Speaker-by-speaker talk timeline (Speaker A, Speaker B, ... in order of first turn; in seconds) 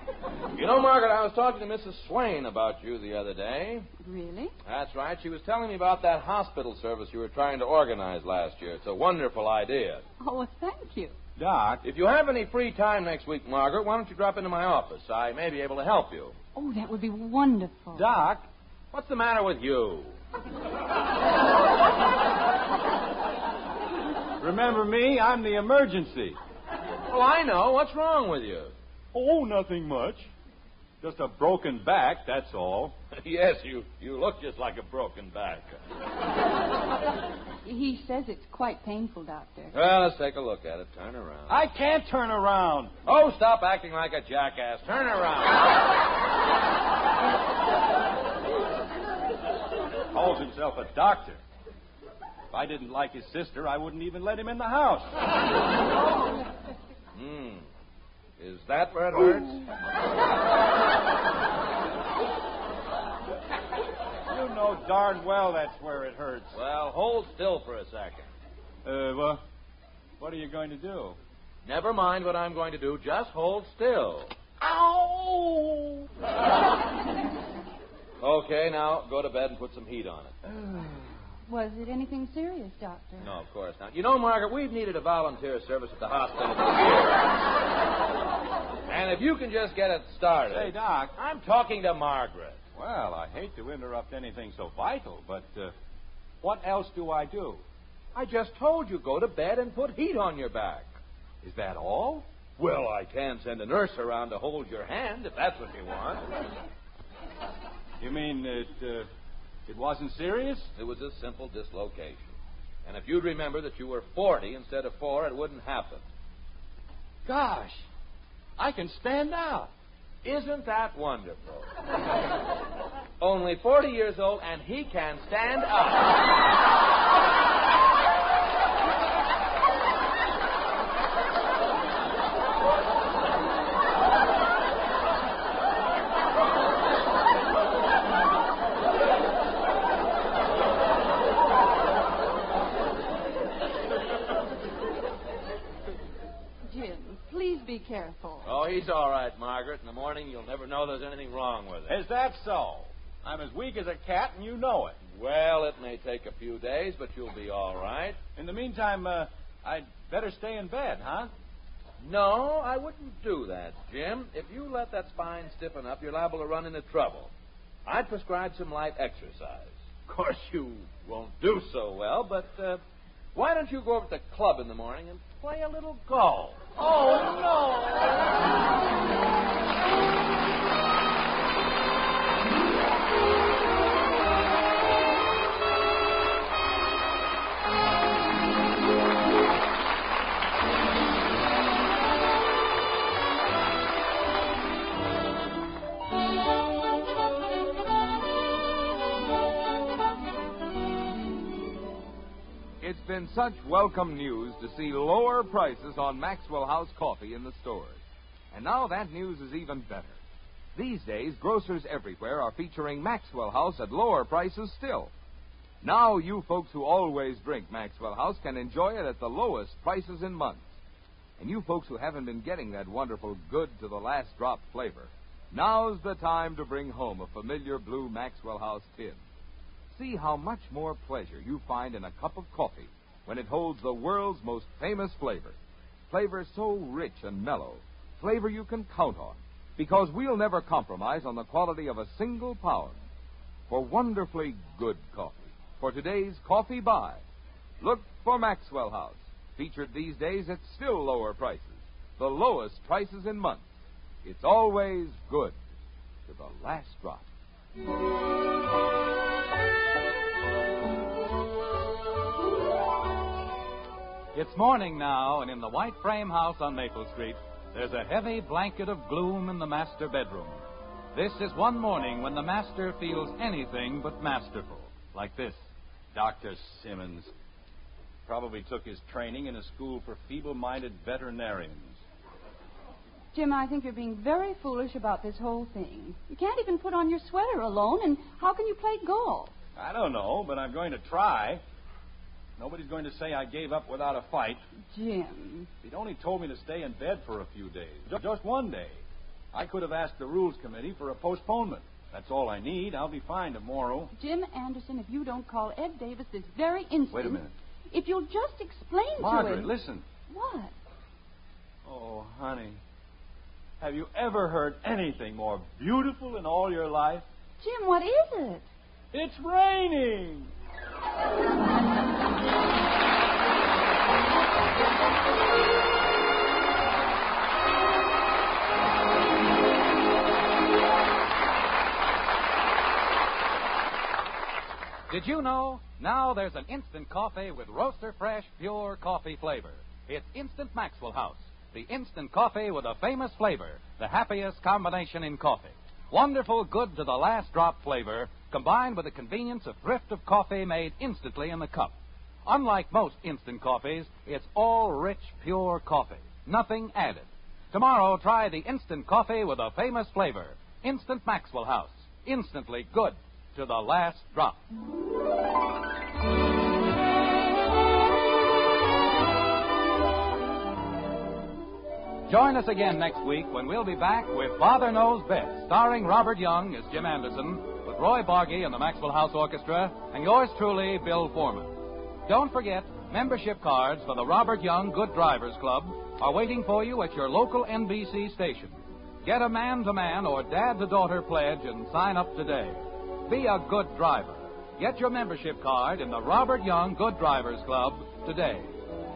Speaker A: 0.5-3.9, 4.6-10.0, 11.8-16.4, 18.9-20.1, 27.1-28.7, 33.1-35.8, 39.7-41.6, 43.0-45.8, 57.1-57.6, 58.4-59.6, 66.5-68.3, 71.6-74.3, 78.2-80.3, 83.2-87.3, 88.9-92.6, 98.1-100.9, 102.6-106.3, 110.8-112.3, 112.8-116.0, 120.2-121.7, 123.2-126.2, 148.4-152.0, 155.0-158.2, 162.0-167.3, 167.8-172.8, 173.3-178.2
Speaker B: 4.0-4.5, 10.2-11.1, 16.5-18.1, 37.6-39.7, 81.5-83.3, 146.7-148.5, 283.3-289.5, 294.9-295.7, 304.1-309.7, 310.3-310.7, 317.6-318.7
Speaker C: 11.4-11.8, 17.9-18.4, 24.4-26.4, 29.1-30.3, 31.0-33.0, 41.5-42.9, 50.1-51.4, 52.5-55.1, 64.3-66.5, 68.8-69.4, 70.2-71.2, 74.6-76.0, 80.4-81.1, 90.5-91.1, 92.7-95.7, 96.4-97.6, 101.4-102.2, 108.0-109.1, 109.7-110.7, 117.2-117.8, 118.6-119.7, 151.9-155.0, 158.3-161.3, 276.1-277.3, 278.2-282.0, 289.8-291.6, 292.6-294.6, 295.8-299.0, 299.5-304.1, 307.1-307.5, 309.2-310.0, 311.8-312.8, 313.8-317.2, 319.1-320.5
Speaker D: 202.8-208.0, 208.5-210.2, 210.7-215.1, 215.8-220.7, 221.4-229.2, 229.9-235.6, 236.1-243.0, 243.7-247.2, 247.8-253.7, 254.2-255.6, 256.3-257.2
Speaker E: 264.3-275.6, 335.1-364.6, 372.3-398.7